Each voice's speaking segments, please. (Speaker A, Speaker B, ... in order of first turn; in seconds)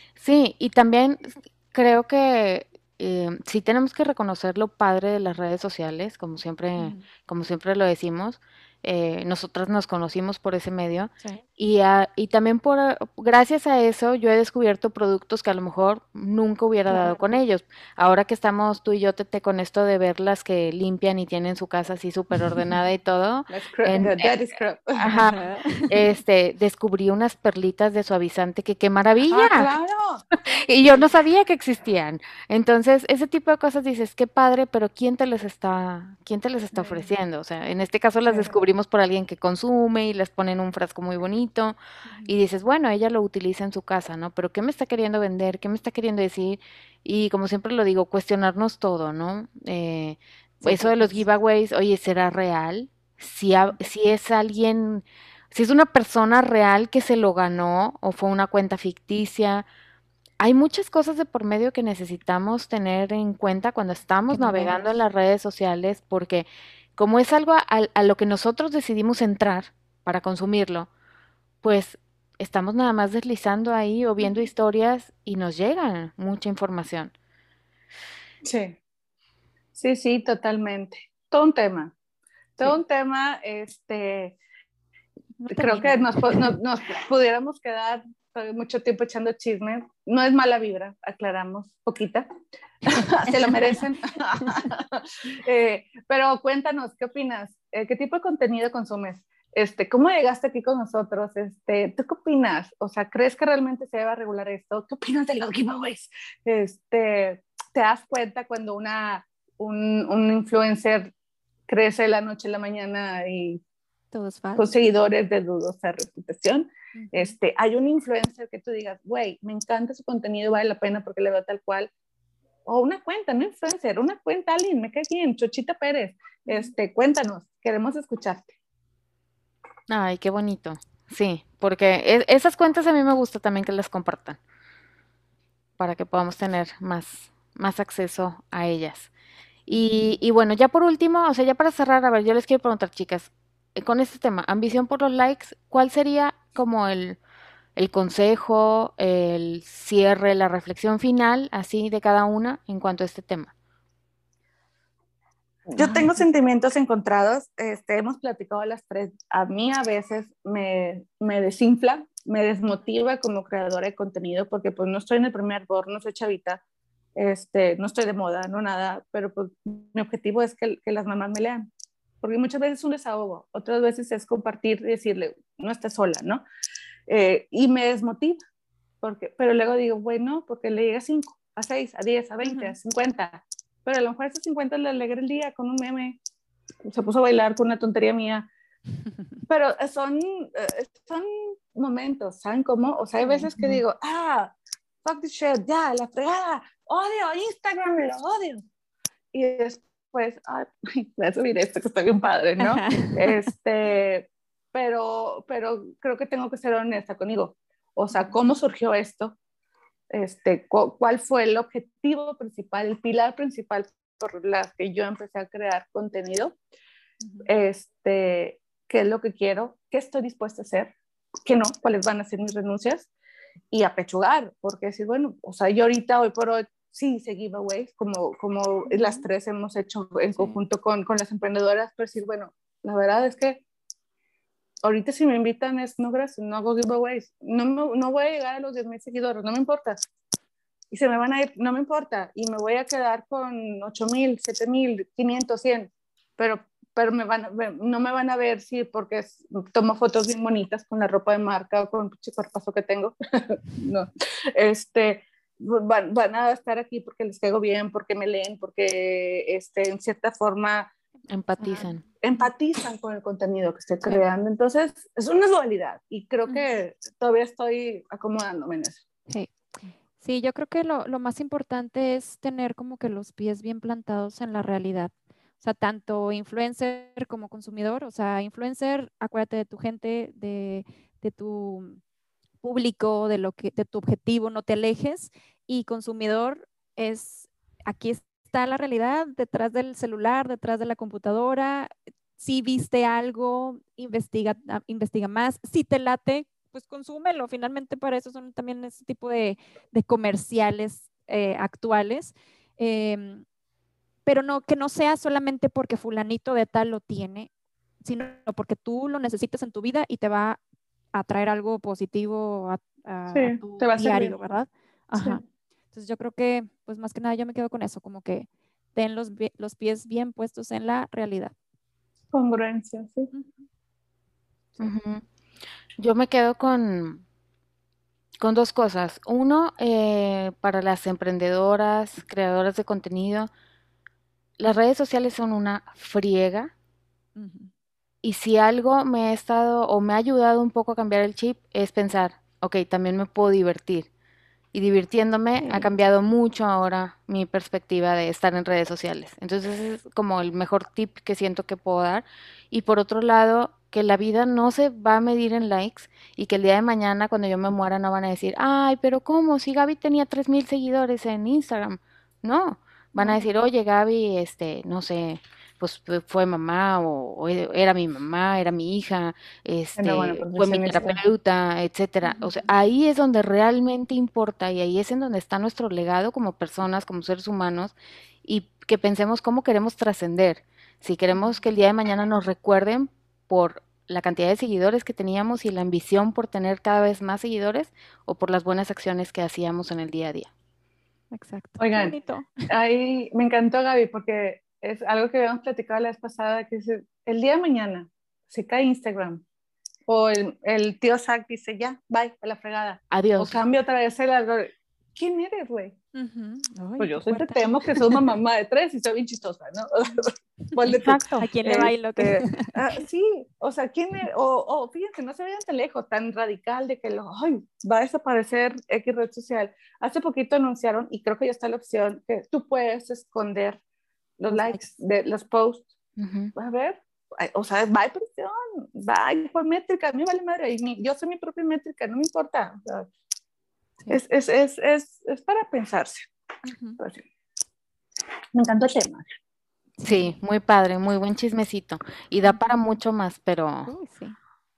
Speaker A: 0.1-24.3, 25.0-29.7, 30.6-41.8, 42.3-59.6, 60.4-70.9, 71.6-77.1, 129.9-134.4, 135.8-139.1, 139.7-147.2, 147.8-153.5, 261.3-262.0, 324.8-325.2, 326.0-327.2, 328.4-333.5, 334.6-336.7, 338.2-344.1, 344.7-390.5, 403.1-403.6, 410.9-411.4, 426.2-426.5, 440.0-443.9
Speaker B: 6.8-7.1, 16.9-17.2, 25.3-25.9, 36.7-37.1, 42.0-42.3, 50.6-51.2, 64.3-65.0, 85.4-86.5, 92.9-93.5, 114.1-114.7, 116.9-117.3, 126.5-126.7, 139.7-140.1, 155.8-156.2, 182.4-182.8, 193.2-193.8, 202.6-203.5, 217.2-217.5, 228.9-229.2, 261.6-262.5, 269.3-282.0, 282.6-303.4, 304.2-307.5, 308.0-310.6, 311.1-321.5, 323.3-323.7, 337.4-337.7, 345.6-345.9, 363.1-363.5, 372.2-372.6, 381.3-381.6, 391.3-392.6, 406.1-408.2, 410.0-410.7, 411.4-413.0, 424.5-424.8, 436.6-437.0, 440.0-440.3, 443.9-444.4
Speaker C: 23.5-25.1, 29.3-30.3, 78.4-78.8, 79.7-81.9, 82.6-84.4, 85.5-92.3, 92.9-111.1, 111.7-113.6, 114.5-121.9, 122.7-128.5, 155.7-166.6, 167.2-171.7, 172.2-176.4, 177.1-178.4, 179.0-186.2, 186.9-188.5, 189.5-198.6, 199.3-209.3, 210.1-216.6, 217.4-220.9, 221.4-223.1, 223.7-233.6, 234.8-240.0, 240.9-260.9, 262.2-269.0, 313.3-314.4, 315.2-315.4, 322.3-323.3, 369.9-371.2, 391.8-392.2, 392.7-399.4, 400.1-406.0, 407.0-423.8, 424.4-425.9, 426.6-433.1, 434.1-436.3, 437.0-437.2, 438.5-439.2